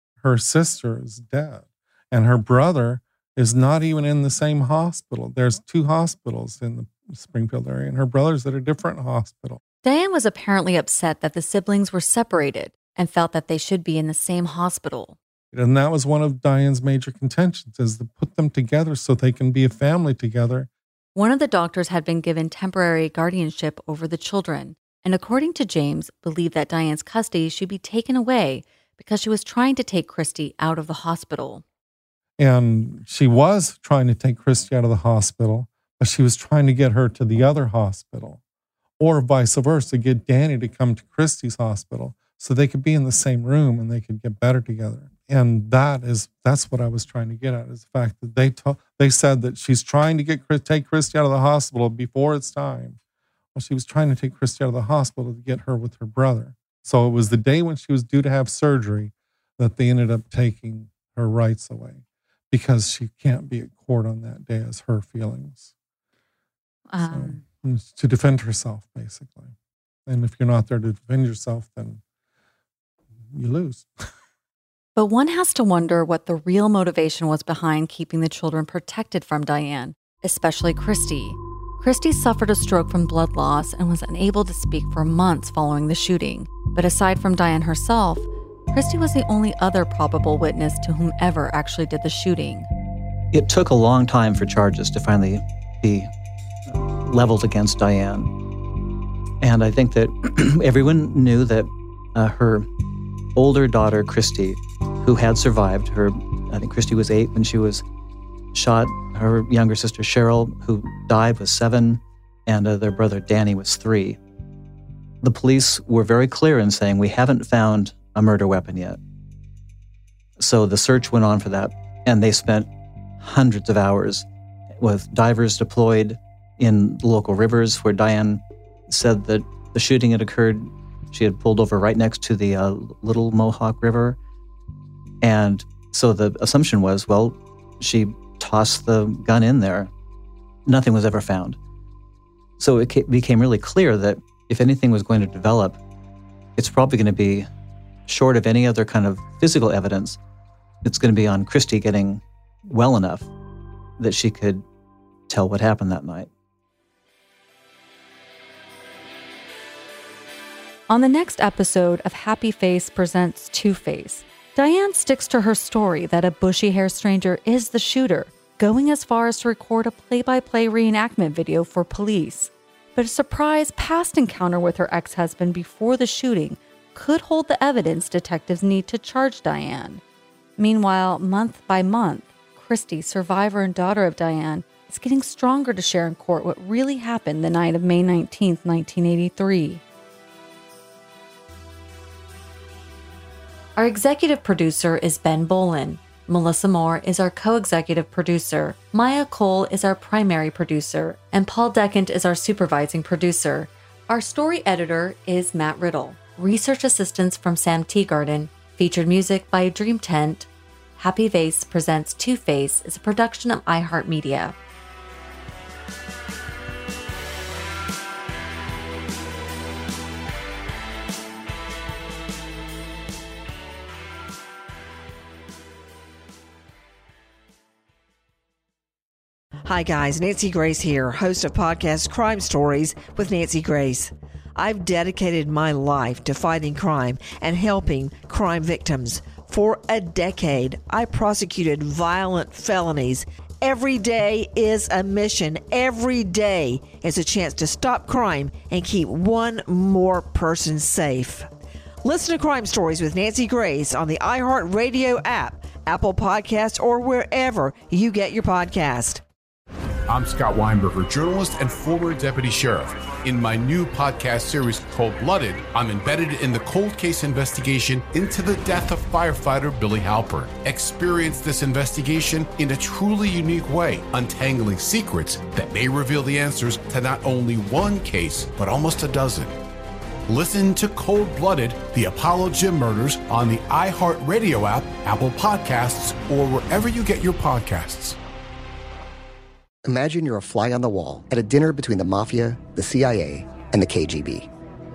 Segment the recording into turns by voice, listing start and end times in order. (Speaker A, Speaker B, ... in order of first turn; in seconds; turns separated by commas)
Speaker A: 0.2-9.6, Speaker B: 9.8-15.2, Speaker A: 15.5-20.7, Speaker B: 21.1-31.6, Speaker A: 32.4-38.4, Speaker A: 39.0-53.0, Speaker A: 53.5-65.7, Speaker B: 66.9-67.4, Speaker A: 67.0-69.5, Speaker A: 70.0-72.0, Speaker A: 73.3-73.9, Speaker B: 75.0-92.7, Speaker C: 93.3-96.1, Speaker C: 96.7-98.3, Speaker C: 99.4-102.7, Speaker C: 103.3-107.8, Speaker C: 108.5-114.2, Speaker C: 115.2-119.0, Speaker C: 120.4-122.7, Speaker C: 123.2-124.2, Speaker C: 124.8-134.2, Speaker C: 135.2-139.9, Speaker C: 140.7-141.6, Speaker C: 142.6-145.8, Speaker C: 146.6-147.5, Speaker C: 148.1-150.2, Speaker C: 150.8-153.3, Speaker C: 154.0-154.6, Speaker C: 155.3-156.3, Speaker B: 160.9-180.0, Speaker B: 180.6-189.8, Speaker B: 193.8-214.5, Speaker D: 229.6-251.5, Speaker D: 252.0-259.2, Speaker E: 260.1-279.6, Speaker E: 280.3-288.2, Speaker F: 289.8-294.5